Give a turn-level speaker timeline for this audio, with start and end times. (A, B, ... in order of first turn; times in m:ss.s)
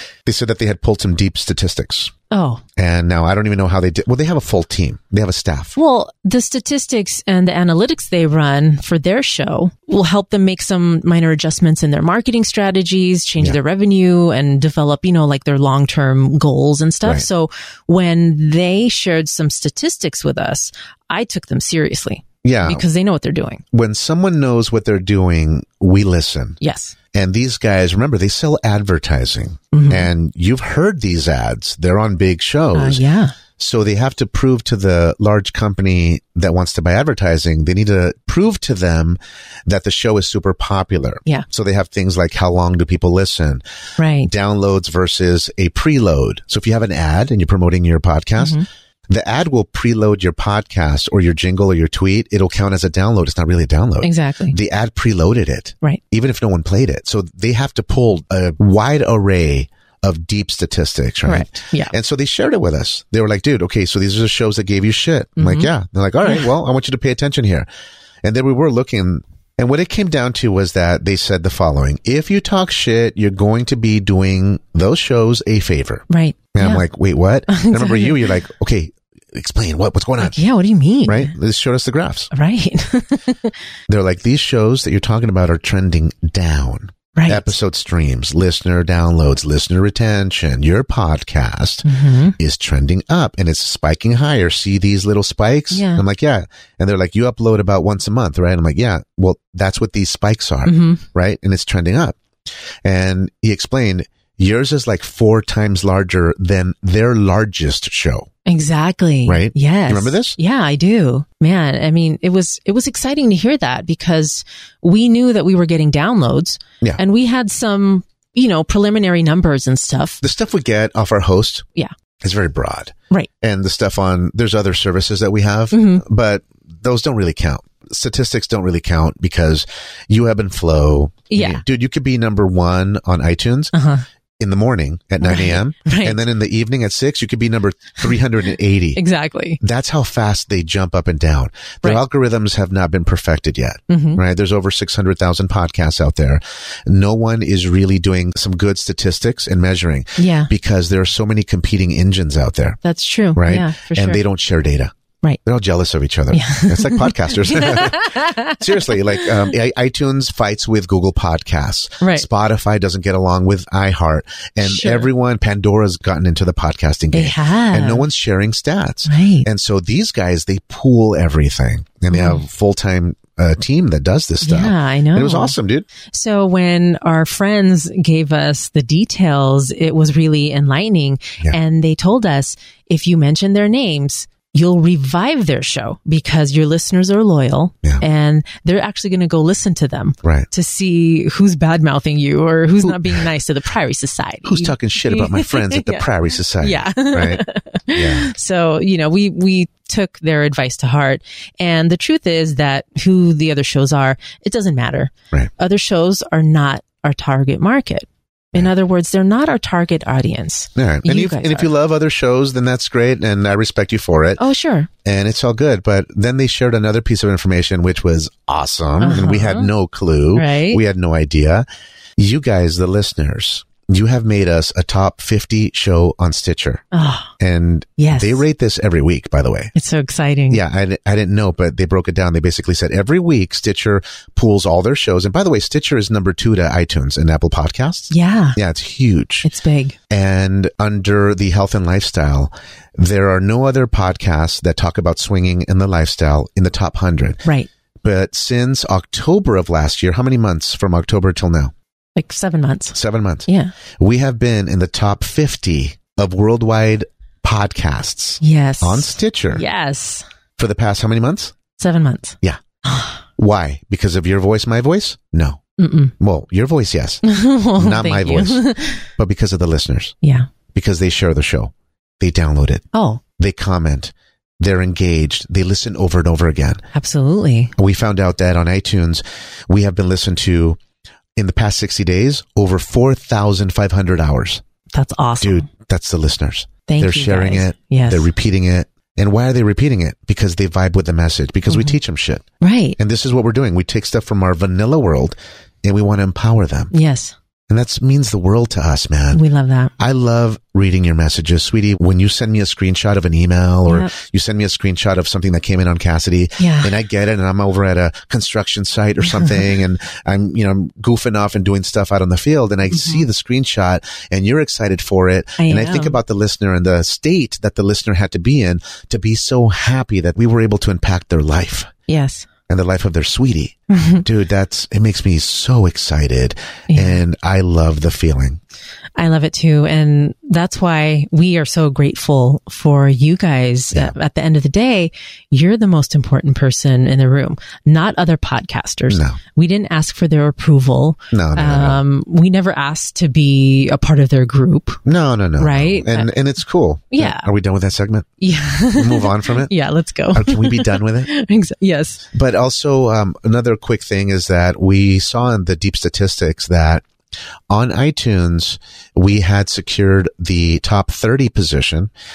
0:00.2-0:02.1 A
0:02.3-0:02.6 B
0:02.8-0:05.8 A
0:05.8-0:23.6 B
0:22.4-0:22.8 A
0:23.7-0:26.6 A
0:26.6-0:27.0 B
0:27.1-0:33.0 A
0:29.7-0:30.1 B
0:32.8-0:33.4 B
0:33.6-0:43.6 A
0:44.0-0:44.3 B
0:44.2-1:07.7 A
0:48.4-0:48.7 B
0:54.0-0:54.6 B
1:01.2-1:01.9 B
1:05.4-1:05.7 B
1:08.2-1:20.4 A
1:16.1-1:16.8 B
1:17.5-1:18.3 B
1:20.2-1:21.3 B
1:21.1-1:22.3 A
1:22.3-1:23.6 B
1:23.9-1:42.2 A
1:27.2-1:27.6 B
1:31.8-1:32.4 B
1:35.7-1:36.0 B
1:40.6-1:41.0 B
1:42.8-1:48.3 A
1:48.5-2:00.2 B
1:49.3-1:50.4 A
2:00.2-2:01.7 A
2:02.2-2:13.8 A
2:05.7-2:06.0 B
2:11.3-2:11.6 B
2:13.7-2:14.0 B
2:14.4-2:19.0 A
2:15.2-2:16.2 B
2:19.0-2:19.6 B
2:19.6-2:32.8 A
2:23.9-2:24.2 B
2:30.2-2:30.5 B
2:32.8-2:34.2 B
2:33.3-2:55.9 A
2:36.3-2:39.5 B
2:42.0-2:42.3 B
2:44.6-2:45.1 B
2:47.1-2:48.1 B
2:49.1-2:49.5 B
2:52.1-2:52.4 B
2:54.4-2:55.6 B
2:56.1-3:31.7 B
3:14.4-3:18.3 A
3:30.8-3:34.4 A
3:34.4-3:34.9 B
3:35.0-3:41.7 A
3:39.0-3:39.7 B
3:40.3-3:40.8 B
3:42.2-3:46.8 A
3:46.9-3:47.3 B
3:47.4-3:49.7 A
3:48.0-3:48.4 B
3:49.8-3:50.6 B
3:50.5-3:59.5 A
3:58.1-3:58.6 B
3:59.4-4:00.0 B
4:00.1-4:07.4 A
4:08.0-4:11.7 A
4:12.2-4:13.0 B
4:12.9-4:13.5 A
4:13.5-4:13.7 B
4:14.0-4:19.6 A
4:18.4-4:20.3 B
4:20.6-4:21.6 A
4:21.8-4:23.2 B
4:23.4-4:25.6 A
4:25.8-4:26.1 B
4:26.2-4:27.2 A
4:27.2-4:29.1 B
4:27.8-4:30.2 A
4:30.2-4:30.5 B
4:30.7-4:32.8 A
4:32.9-4:33.2 B
4:33.4-4:36.8 A
4:36.9-4:37.7 B
4:37.8-4:40.8 A
4:41.4-4:44.6 A
4:44.9-4:45.7 B
4:45.4-4:52.4 A
4:46.9-4:48.3 B
4:51.7-4:52.0 B
4:52.6-4:53.0 B
4:53.0-4:56.9 A
4:56.9-4:57.4 B
4:57.7-4:59.4 A
4:59.3-4:59.9 B
5:00.0-5:21.9 A
5:03.9-5:04.2 B
5:06.6-5:07.0 B
5:09.2-5:09.7 B
5:12.9-5:13.2 B
5:15.6-5:16.2 B
5:22.1-5:22.5 B
5:22.7-5:28.6 A
5:23.9-5:24.2 B
5:26.9-5:27.2 B
5:29.2-5:45.0 B
5:39.1-5:39.4 A
5:41.3-5:42.0 A
5:45.0-5:48.3 A
5:45.6-5:46.3 B
5:47.1-5:47.5 B
5:48.4-5:52.2 B
5:48.9-5:49.7 A
5:50.3-5:51.3 A
5:52.3-5:57.0 A
5:57.7-6:02.1 A